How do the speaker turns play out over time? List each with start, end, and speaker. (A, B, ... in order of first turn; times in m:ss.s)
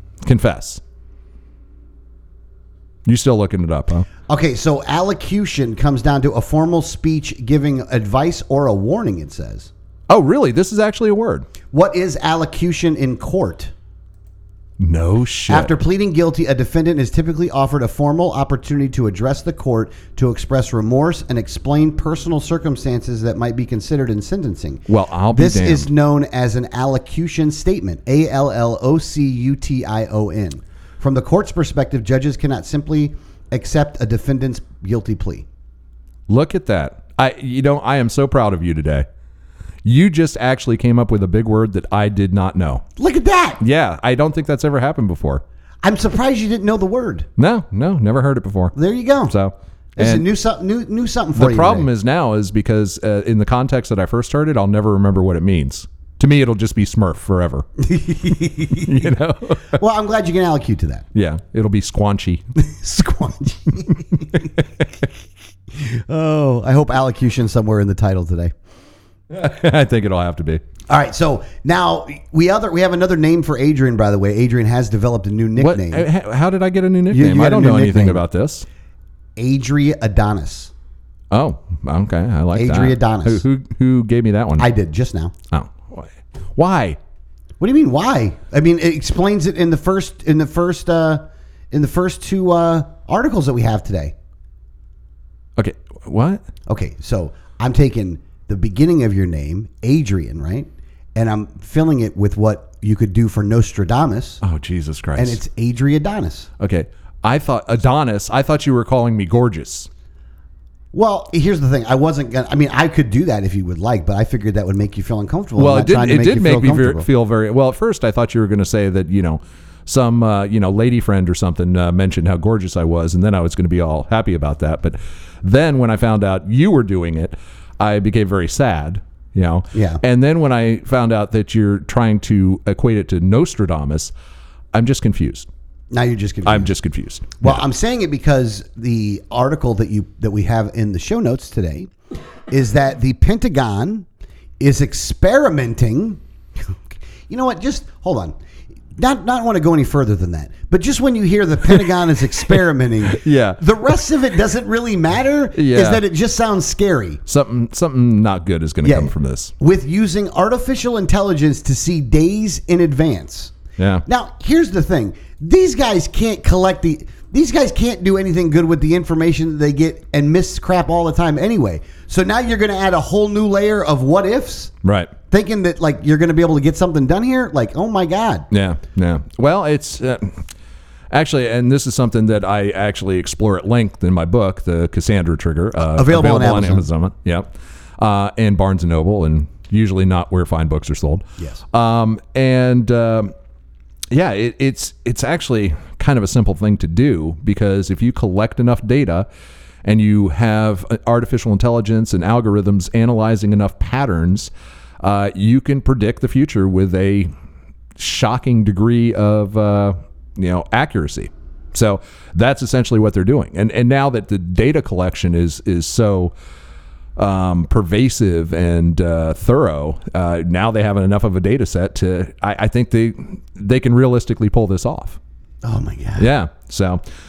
0:00.2-0:00.8 A
0:03.0-0:04.0 A
0:04.3-0:09.7 B
0:10.1-0:11.5 A
0:11.7-0:13.7 B
0:14.8-0:15.7 A
0:15.5-0:35.4 B
0:24.9-0:25.9 A
0:36.3-0:39.1 A
0:39.8-0:42.8 A
0:43.0-0:43.6 B
0:43.6-0:45.4 A
0:45.8-0:47.3 B
0:47.4-0:48.7 A
0:48.7-0:49.3 B
0:49.3-0:50.2 A
0:50.0-0:51.9 B
0:51.3-0:57.7 A
0:57.8-0:59.0 B
0:58.7-0:59.8 A
0:59.7-1:01.0 B
1:01.1-1:02.4 A
1:02.6-1:04.5 B
1:05.7-1:08.5 B
1:09.3-1:10.6 A
1:10.9-1:16.1 B
1:15.6-1:18.6 A
1:17.1-1:18.2 B
1:19.4-1:20.7 B
1:21.3-1:24.7 A
1:22.5-1:23.4 B
1:24.6-1:25.3 B
1:25.5-1:27.0 A
1:27.6-1:34.1 B
1:35.6-1:36.4 A
1:36.7-1:44.4 B
1:44.4-1:45.4 A
1:45.2-1:46.5 B
1:46.6-1:49.9 A
1:50.9-1:57.1 B
1:55.6-2:14.1 A
2:09.7-2:10.0 B
2:14.7-2:15.5 A
2:15.9-2:16.7 B
2:16.4-2:17.6 A
2:17.4-2:21.9 B
2:22.5-2:24.1 B
2:24.6-2:26.8 B
2:27.3-2:28.3 B
2:29.0-2:37.2 B
2:33.0-2:33.6 A
2:35.5-2:36.0 A
2:37.3-2:39.5 A
2:38.8-2:54.7 B
2:43.8-2:44.0 A
2:54.8-2:55.1 A
2:55.3-2:58.5 B
2:58.5-3:00.4 A
3:01.1-3:13.3 A
3:05.9-3:06.9 B
3:14.1-3:19.3 A
3:19.8-3:27.3 A
3:28.0-3:36.3 A
3:37.2-3:45.2 A
3:45.6-3:46.3 B
3:46.2-3:47.0 A